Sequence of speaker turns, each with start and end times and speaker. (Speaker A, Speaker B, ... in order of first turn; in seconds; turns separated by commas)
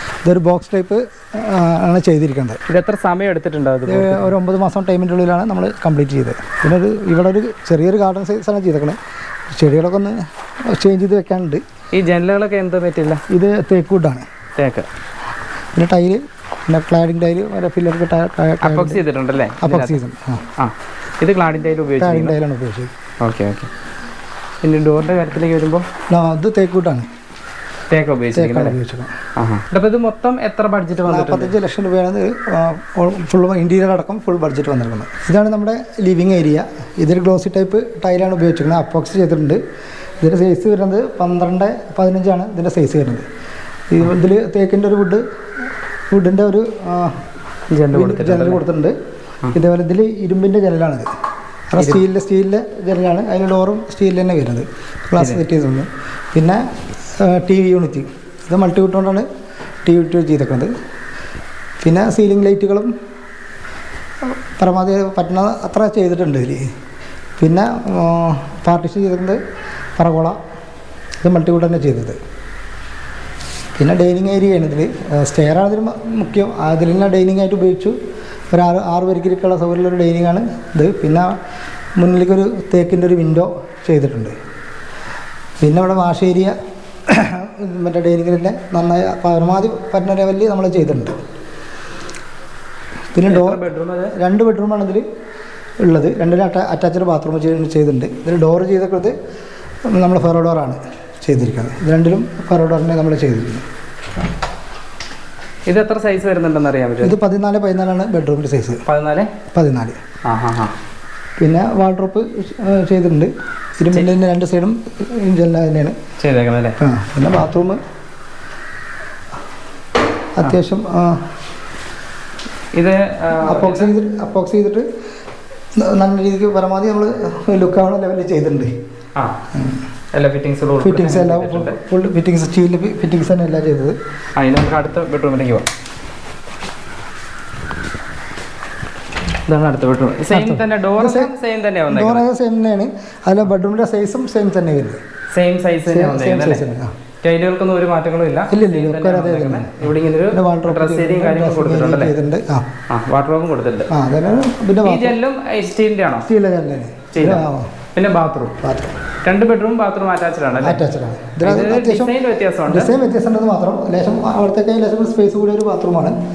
Speaker A: 0.2-2.6, Speaker B: 2.7-4.3, Speaker A: 3.9-9.0, Speaker A: 9.5-10.2, Speaker A: 10.7-11.6, Speaker B: 11.9-13.2, Speaker A: 13.3-14.3, Speaker B: 14.6-14.9, Speaker A: 15.8-19.0, Speaker B: 18.6-20.0, Speaker A: 19.6-20.5, Speaker B: 20.6-22.4, Speaker A: 22.0-22.9, Speaker B: 23.2-23.7, Speaker B: 24.6-25.9, Speaker A: 26.1-27.1, Speaker B: 27.9-28.8, Speaker A: 28.3-29.1, Speaker B: 29.4-31.6, Speaker A: 31.1-39.6, Speaker A: 40.2-43.3, Speaker A: 43.9-45.2, Speaker A: 46.1-47.2, Speaker B: 47.7-48.6, Speaker A: 47.9-49.0, Speaker A: 49.5-51.1, Speaker A: 51.7-56.6, Speaker B: 51.8-52.0, Speaker B: 55.1-55.4, Speaker A: 57.2-59.3, Speaker A: 59.9-60.7, Speaker A: 61.8-62.9, Speaker A: 64.6-66.6, Speaker A: 67.4-69.4, Speaker A: 70.0-70.4, Speaker A: 71.2-72.2, Speaker A: 73.8-78.0, Speaker A: 78.5-81.3, Speaker A: 82.0-84.3, Speaker A: 85.6-86.5, Speaker A: 87.1-91.2, Speaker A: 93.2-93.7, Speaker B: 93.2-94.1, Speaker A: 94.2-95.1, Speaker A: 95.8-99.2, Speaker A: 99.9-103.7, Speaker B: 105.7-107.2, Speaker A: 107.0-108.8, Speaker B: 108.9-109.3, Speaker A: 109.5-110.0, Speaker B: 110.3-110.7, Speaker A: 111.4-116.0, Speaker B: 116.2-116.8, Speaker A: 116.8-117.8, Speaker A: 120.4-121.2, Speaker B: 122.7-123.9, Speaker A: 123.5-124.9, Speaker A: 125.8-128.7, Speaker B: 130.1-131.8, Speaker A: 130.8-134.0, Speaker B: 134.4-135.7, Speaker B: 139.5-142.2, Speaker A: 140.3-141.3, Speaker A: 141.9-145.0, Speaker B: 145.3-146.7, Speaker A: 145.9-146.9, Speaker B: 147.2-152.2, Speaker A: 148.5-152.7, Speaker B: 152.9-153.9, Speaker A: 153.9-155.2, Speaker B: 154.8-156.3, Speaker A: 156.3-157.7, Speaker B: 157.1-158.6, Speaker A: 158.6-158.9, Speaker B: 159.2-160.8, Speaker A: 160.6-162.2, Speaker B: 161.4-162.9, Speaker A: 162.7-166.2